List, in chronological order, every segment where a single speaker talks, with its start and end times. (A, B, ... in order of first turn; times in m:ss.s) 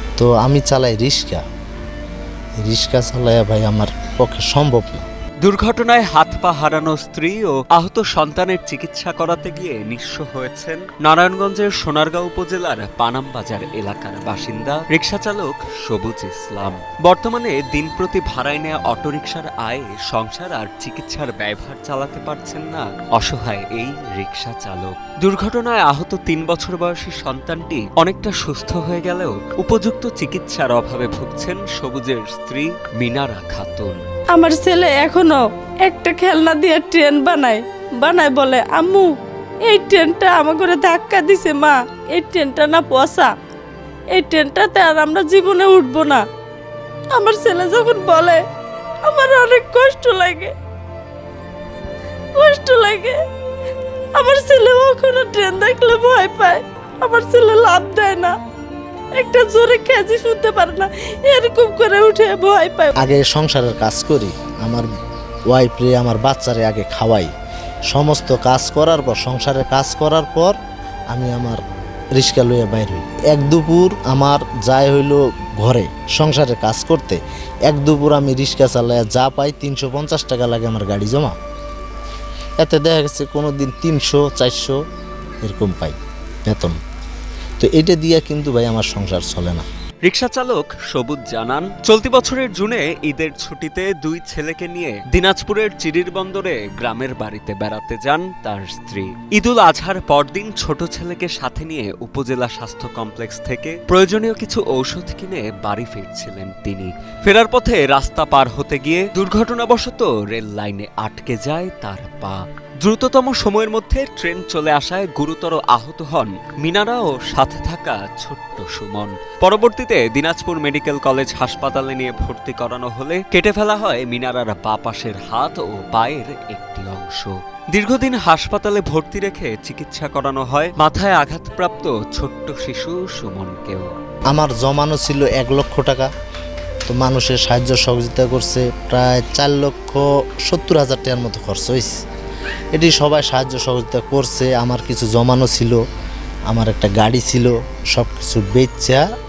0:00.2-0:01.4 A
0:02.6-0:05.0 A
0:05.4-0:34.0 B
0:34.3-0:39.1 C
0:39.7-0:43.3 C
0:44.1-0:46.2 C
0:47.1-0:48.4 C
0:49.0-0:50.5 C
0:52.4-0:53.2 C
0:54.1-0:58.3 C
0:59.2-1:02.9 C
1:03.0-1:04.9 A
1:05.5-1:07.3 A
1:07.9-1:10.5 A
1:11.1-1:11.6 A
1:12.1-1:21.3 A
1:22.6-1:24.7 A
1:25.4-1:25.9 A
1:26.4-1:26.8 A
1:27.6-1:29.6 A
1:30.0-2:13.9 B
2:14.3-2:16.1 A
2:16.9-2:21.9 A
2:22.7-2:25.8 A
2:26.5-2:29.0 A